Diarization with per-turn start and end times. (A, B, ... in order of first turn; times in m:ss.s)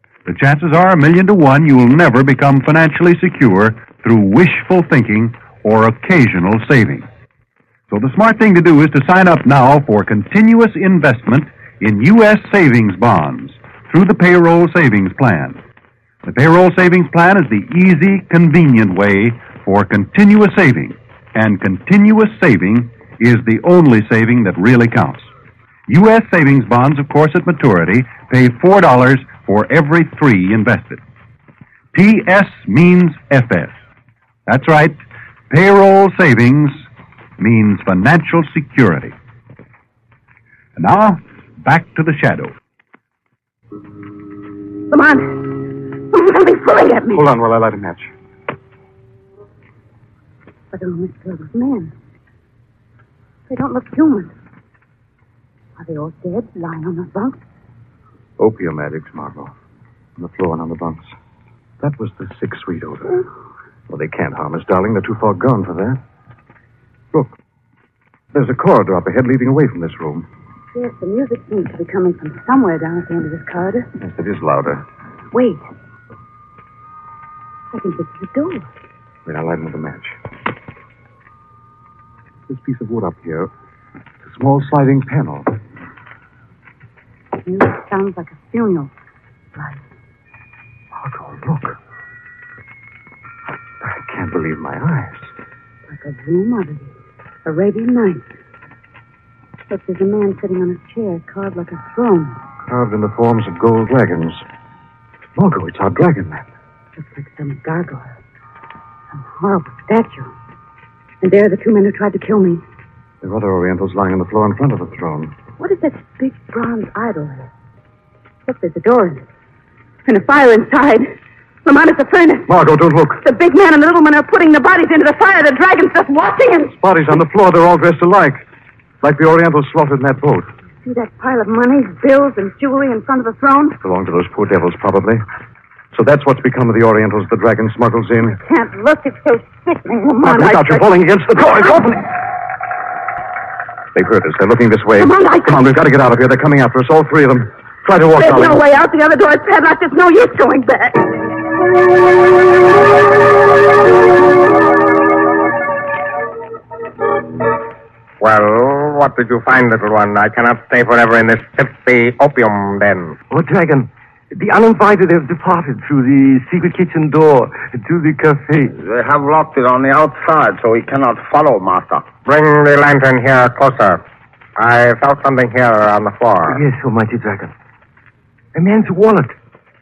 0:00.2-0:07.0 A
0:07.9-0:15.6 A
0:16.2-0:25.3 A
0:25.9-0:31.0 A
0:31.9-0:33.8 A
0:34.5-0:35.0 A
0:35.5-0:36.9 A
0:37.4-0:39.1 A
0:40.8-0:42.5 A
0:44.9-0:45.4 B
0:46.1-0:47.2 B
0:47.1-0:48.1 C
0:50.7-0:51.9 B
0:53.5-0:54.3 B
0:55.8-0:57.4 B
0:58.4-0:59.5 C
1:00.2-1:01.1 C
1:01.8-1:03.2 C
1:03.9-1:06.0 C
1:08.3-1:10.2 C
1:10.7-1:13.9 B
1:14.0-1:14.8 C
1:15.3-1:15.6 B
1:17.7-1:18.7 B
1:19.2-1:20.2 C
1:22.5-1:23.5 C
1:24.2-1:25.5 C
1:27.4-1:28.9 B
1:29.6-1:29.8 B
1:31.0-1:31.8 C
1:33.8-1:35.3 C
1:35.9-1:36.9 B
1:37.4-1:38.2 B
1:39.7-1:42.4 B
1:42.7-1:44.4 C
1:45.4-1:46.5 C
1:47.0-1:48.1 B
1:49.1-1:50.3 B
1:51.2-1:52.6 B
1:53.2-1:55.3 C
1:55.6-1:57.5 B
1:58.4-1:59.2 B
2:00.0-2:02.5 B
2:02.5-2:03.2 C
2:03.2-2:06.8 B
2:06.8-2:08.4 C
2:09.0-2:10.5 C
2:10.8-2:13.8 B
2:13.8-2:15.2 C
2:15.9-2:18.4 C
2:18.4-2:20.9 B
2:20.2-2:22.0 C
2:23.9-2:28.6 C
2:25.0-2:25.6 B
2:28.2-2:31.1 B
2:38.2-2:43.2 D
2:43.3-2:48.7 E
2:48.8-2:52.1 F
2:52.2-2:54.0 D
2:54.6-2:56.6 D
2:56.4-2:57.5 E
2:58.5-2:59.3 E